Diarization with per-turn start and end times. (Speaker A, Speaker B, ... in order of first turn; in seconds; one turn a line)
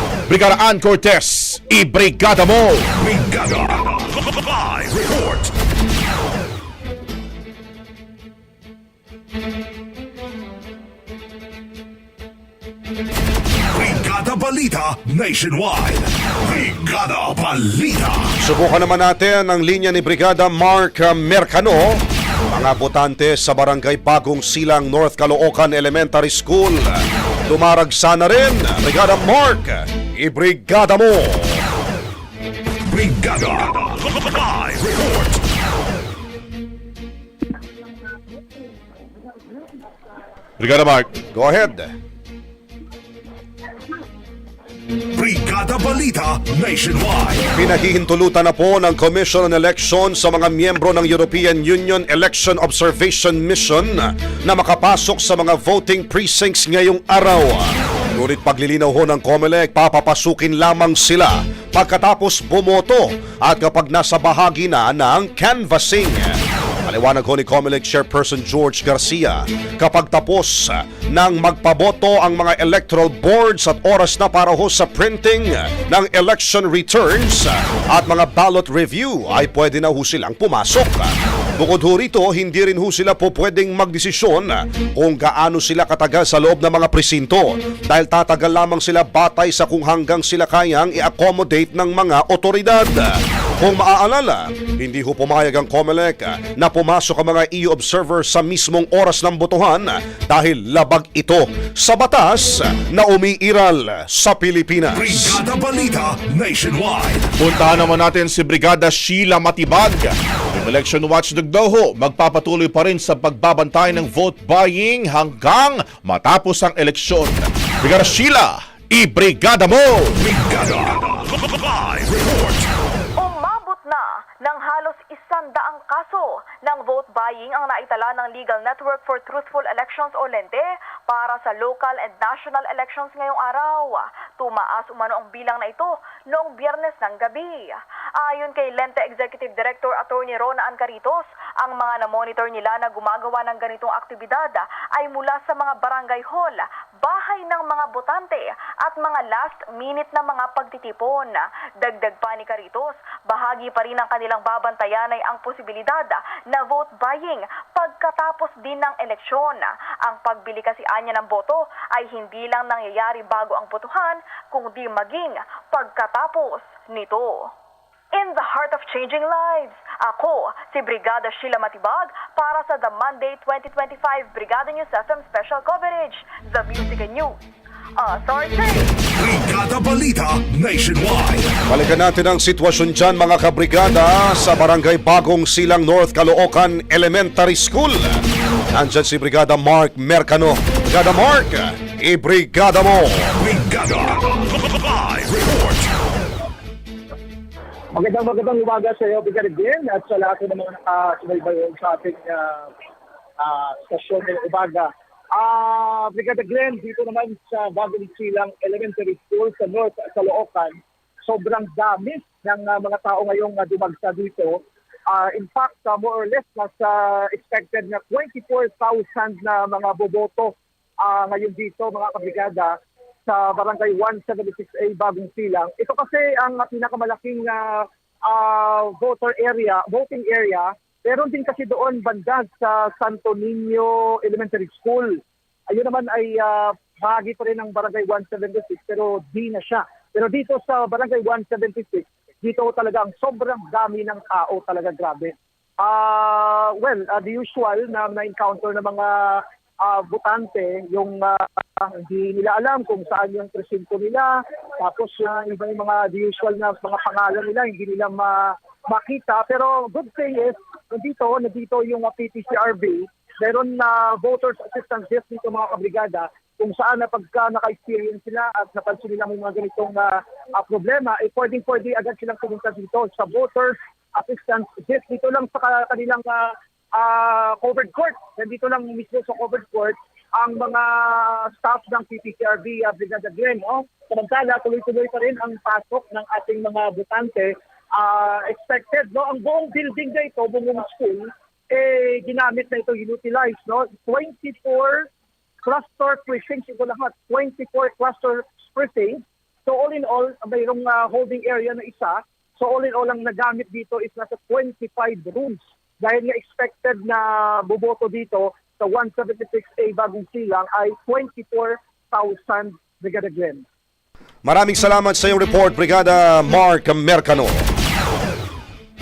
Speaker A: 0.3-2.9
Speaker B: 3.0-5.5
Speaker B: 13.7-18.3
Speaker C: 18.4-22.0
Speaker C: 22.5-31.6
Speaker B: 32.9-35.4
Speaker A: 40.6-41.1
Speaker C: 41.3-41.9
Speaker B: 45.1-47.5
Speaker C: 47.5-105.4
Speaker B: 104.9-107.3
Speaker A: 107.4-120.2
Speaker B: 120.2-122.7
Speaker D: 123.2-167.5
Speaker D: 168.1-177.4
Speaker D: 178.0-179.0
Speaker B: 179.1-181.5
Speaker C: 181.7-188.2
Speaker C: 188.7-193.3
Speaker B: 193.4-195.9
Speaker E: 197.9-202.7
Speaker E: 203.4-295.1
Speaker E: 295.6-313.6
Speaker C: 314.4-317.6